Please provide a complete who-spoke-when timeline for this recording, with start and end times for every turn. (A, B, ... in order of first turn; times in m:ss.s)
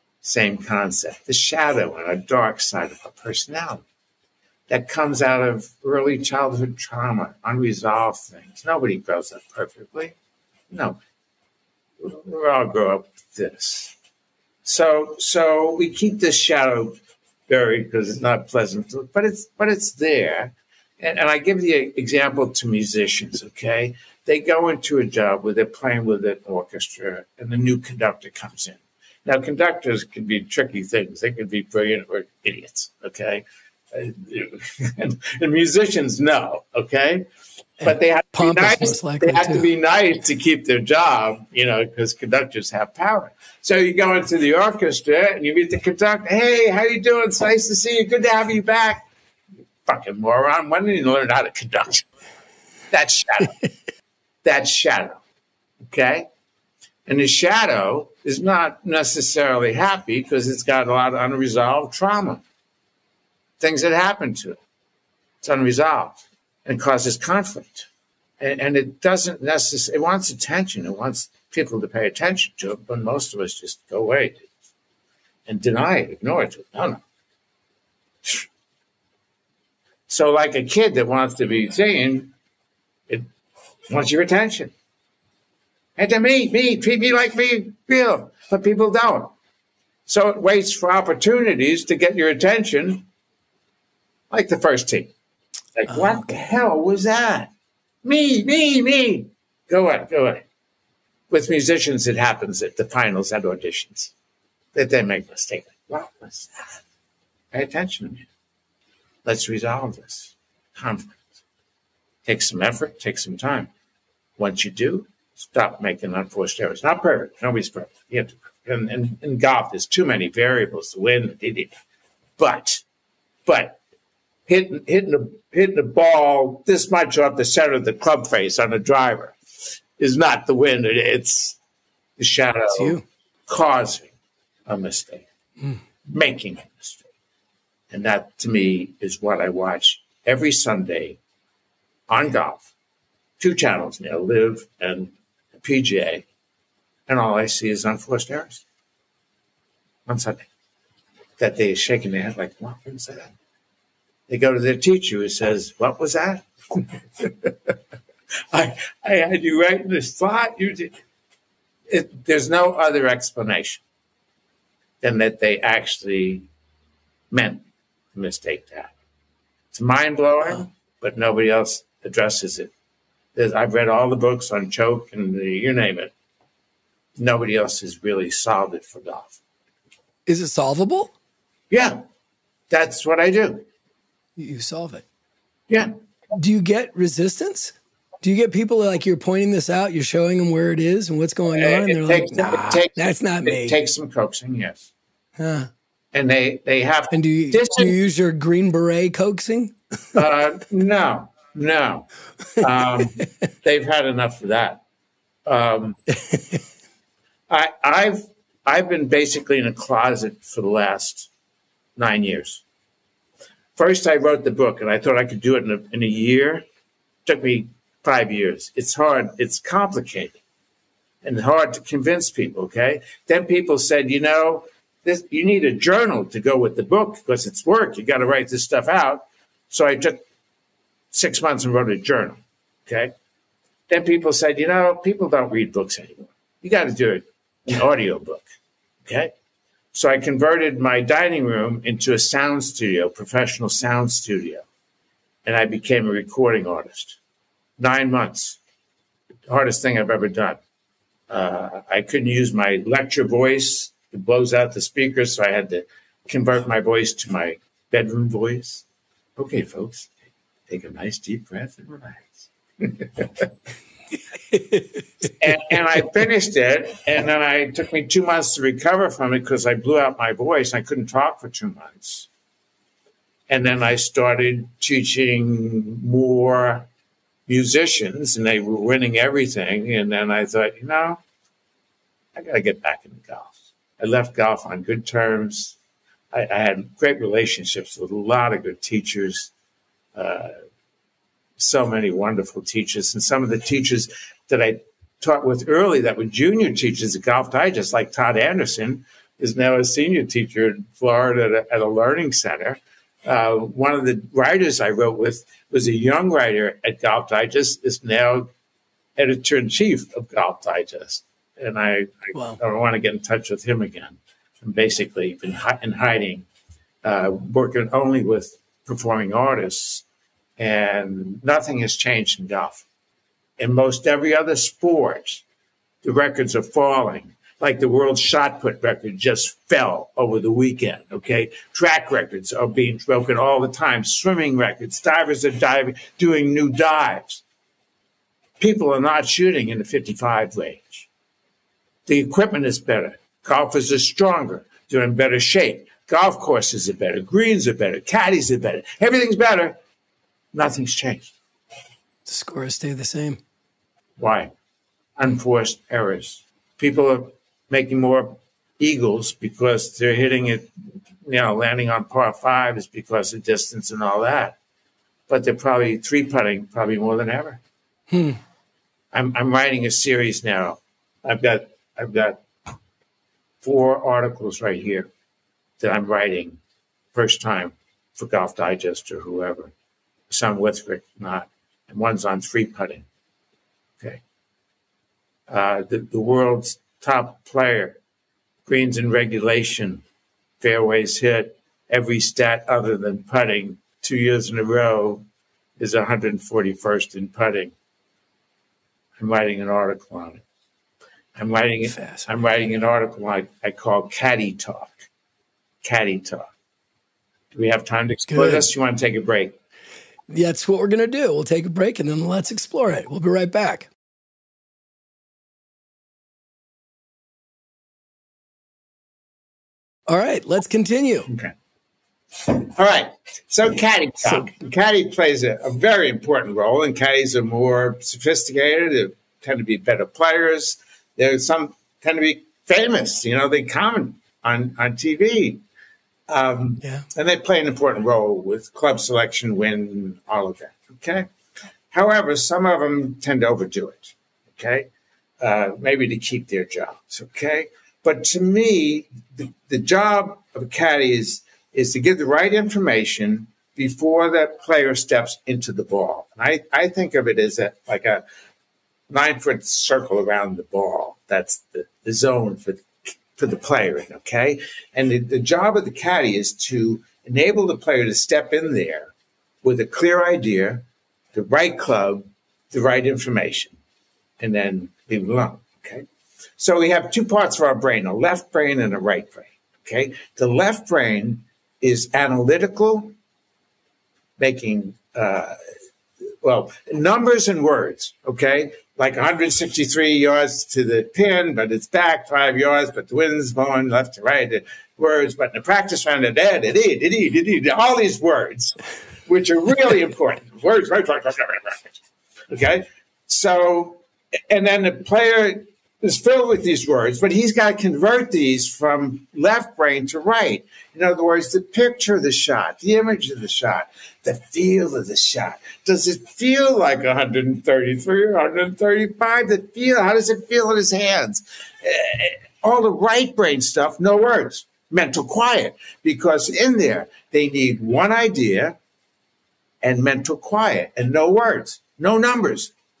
0:00.2-0:03.8 A
0:04.7-0:10.1 A
0:10.7-0:11.0 A
0:12.0-0:13.9 A
0:14.6-0:37.2 A
0:37.8-0:39.7 B
0:37.8-0:49.0 A
0:49.8-0:52.0 A
0:52.9-0:53.6 A
0:54.4-0:55.2 A
0:55.9-0:56.3 A
0:57.0-1:02.4 A
1:03.6-1:04.6 A
1:05.4-1:07.9 A
1:08.4-1:14.5 A
1:15.5-1:17.0 A
1:20.1-1:22.3 A
1:23.9-1:24.7 A
1:26.0-1:29.3 A
1:30.0-1:33.0 A
1:34.3-1:35.1 A
1:35.8-1:37.5 A
1:38.0-1:40.4 A
1:41.3-1:44.1 A
1:44.7-1:46.8 A
1:47.5-1:48.2 A
1:49.2-1:51.2 A
1:52.2-1:53.7 A
1:54.4-2:01.7 A
2:02.4-2:02.8 A
2:03.4-2:03.8 A
2:04.5-2:09.4 A
2:10.0-2:11.6 A
2:12.2-2:14.1 A
2:12.7-2:13.0 B
2:14.7-2:15.2 A
2:16.0-2:17.0 A
2:17.9-2:21.2 A
2:22.1-2:22.7 A
2:23.4-2:26.2 A
2:27.1-2:28.6 A
2:30.1-2:30.4 A
2:31.4-2:33.3 A
2:34.3-2:37.7 A
2:38.5-2:40.9 A
2:41.9-2:43.8 A
2:45.0-2:46.5 A
2:47.3-2:48.9 A
2:49.7-2:52.7 A
2:53.3-2:56.1 A
2:57.2-2:59.4 A
3:00.2-3:01.1 B
3:01.7-3:02.0 A
3:02.7-3:03.6 A
3:04.4-3:05.0 B
3:06.3-3:13.8 B
3:11.5-3:14.9 A
3:15.4-3:15.7 B
3:16.1-3:17.9 A
3:17.1-3:20.2 B
3:20.1-3:24.8 A
3:22.6-3:23.3 B
3:25.4-3:26.0 A
3:26.3-3:26.6 B
3:27.5-3:31.3 A
3:32.0-3:32.6 A
3:33.8-3:36.6 A
3:37.2-3:40.4 A
3:41.2-3:50.2 A
3:51.1-3:53.1 A
3:53.9-3:58.5 A
3:59.0-3:59.3 A
3:59.9-4:04.6 A
4:05.4-4:07.2 A
4:07.8-4:08.6 A
4:09.5-4:10.6 A
4:11.3-4:18.8 A
4:19.4-4:20.1 A
4:20.7-4:23.5 A
4:24.5-4:25.2 B
4:25.4-4:32.3 A
4:33.5-4:36.9 A
4:37.5-4:41.2 A
4:42.3-4:45.8 A
4:46.3-4:49.5 A
4:50.1-4:50.5 A
4:51.6-5:08.5 A
5:09.2-5:16.4 A
5:12.3-5:12.6 B
5:17.0-5:20.0 A
5:20.6-5:22.8 A
5:23.6-5:25.4 A
5:26.0-5:37.4 A
5:38.6-5:41.1 A
5:42.0-5:49.8 A
5:50.5-5:51.3 A
5:52.2-5:53.4 B
5:54.2-5:54.5 A
5:55.2-6:00.7 A
6:01.2-6:04.6 A
6:05.3-6:07.6 A
6:08.1-6:08.4 B
6:09.1-6:12.4 A
6:13.6-6:15.1 A
6:15.8-6:16.6 A
6:17.1-6:19.7 A
6:20.3-6:23.0 A
6:25.5-6:28.0 A
6:28.6-6:30.0 A
6:30.6-6:35.2 A
6:35.8-6:37.7 A
6:39.2-6:40.4 A
6:41.4-6:45.0 A
6:41.9-6:42.2 B
6:45.8-6:46.5 A
6:47.5-6:49.6 A
6:48.3-6:48.7 B
6:50.3-6:53.9 B
7:00.1-7:01.3 B
7:01.3-7:01.5 A
7:02.4-7:15.6 A
7:16.3-7:21.3 A
7:21.9-7:24.9 A
7:25.4-7:38.2 A
7:39.1-7:49.1 A
7:49.6-7:53.8 A
7:54.4-7:56.0 A
7:56.6-8:03.1 A
8:04.4-8:05.6 A
8:06.4-8:48.8 A
8:49.8-8:52.7 A